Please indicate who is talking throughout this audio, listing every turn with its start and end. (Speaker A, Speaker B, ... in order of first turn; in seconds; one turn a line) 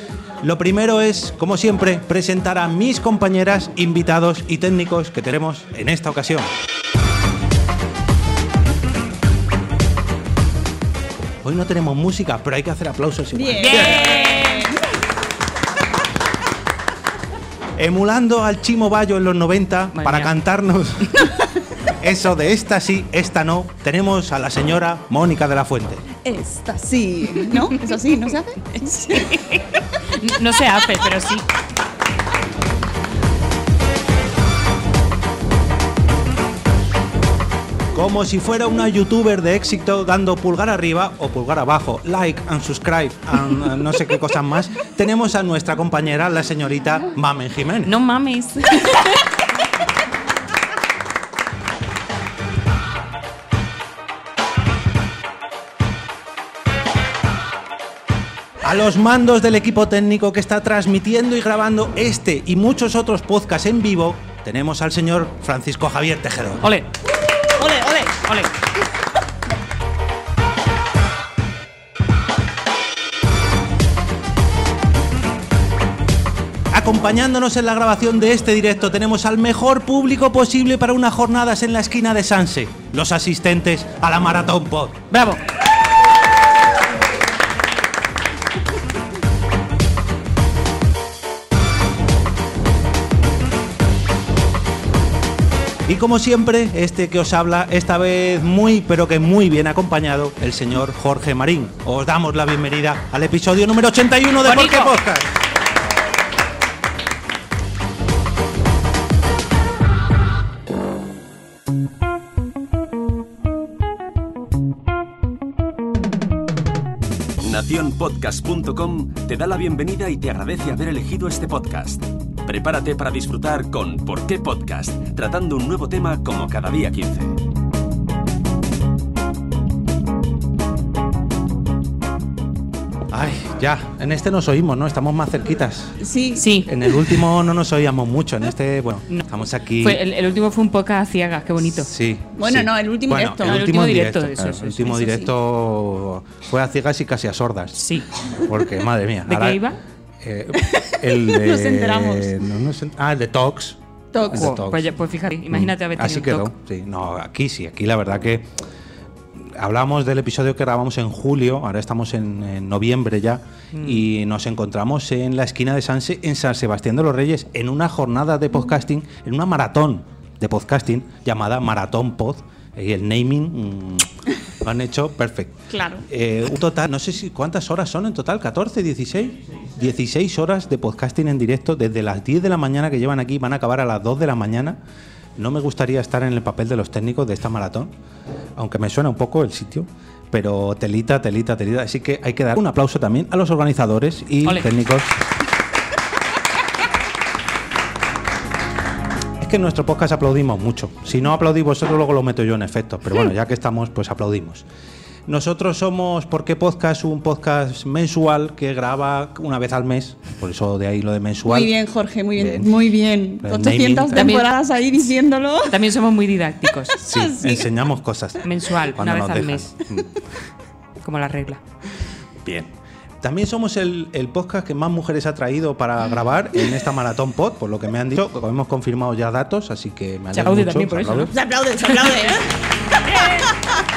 Speaker A: 0.4-6.5
Speaker A: 11.4-14.2
Speaker B: 13.3-14.8
Speaker C: 13.6-14.7
Speaker A: 17.8-21.3
Speaker C: 19.9-20.3
Speaker A: 21.9-26.1
Speaker B: 26.2-29.4
Speaker C: 29.1-31.4
Speaker A: 37.9-48.0
Speaker C: 47.8-49.2
Speaker A: 58.6-66.7
Speaker C: 66.6-66.9
Speaker C: 67.6-68.5
Speaker B: 67.6-67.9
Speaker A: 76.7-85.0
Speaker C: 85.1-85.4
Speaker A: 95.8-105.3
Speaker C: 104.5-104.9
Speaker D: 117.4-127.3
Speaker A: 133.1-136.0
Speaker B: 136.0-136.5
Speaker C: 136.4-136.7
Speaker A: 136.7-140.0
Speaker C: 139.8-141.9
Speaker A: 141.7-147.8
Speaker B: 142.4-143.6
Speaker C: 143.4-145.0
Speaker B: 144.9-145.3
Speaker C: 147.8-148.1
Speaker A: 148.4-149.6
Speaker C: 149.2-149.8
Speaker A: 150.2-154.8
Speaker B: 151.1-152.3
Speaker B: 154.2-154.5
Speaker C: 154.2-156.5
Speaker A: 155.5-158.5
Speaker A: 159.4-174.1
Speaker C: 163.7-164.1
Speaker A: 174.6-184.8
Speaker B: 175.7-176.1
Speaker A: 185.3-187.9
Speaker A: 188.6-195.2
Speaker A: 199.4-204.7
Speaker A: 205.3-211.8
Speaker B: 211.4-215.8
Speaker A: 212.3-212.9
Speaker A: 213.4-214.4
Speaker C: 214.1-214.5
Speaker C: 215.7-217.0
Speaker B: 216.9-217.8
Speaker A: 217.0-220.1
Speaker C: 218.4-219.8
Speaker C: 221.0-221.6
Speaker A: 222.4-231.3
Speaker C: 230.3-231.3
Speaker B: 231.3-233.8
Speaker C: 233.1-233.4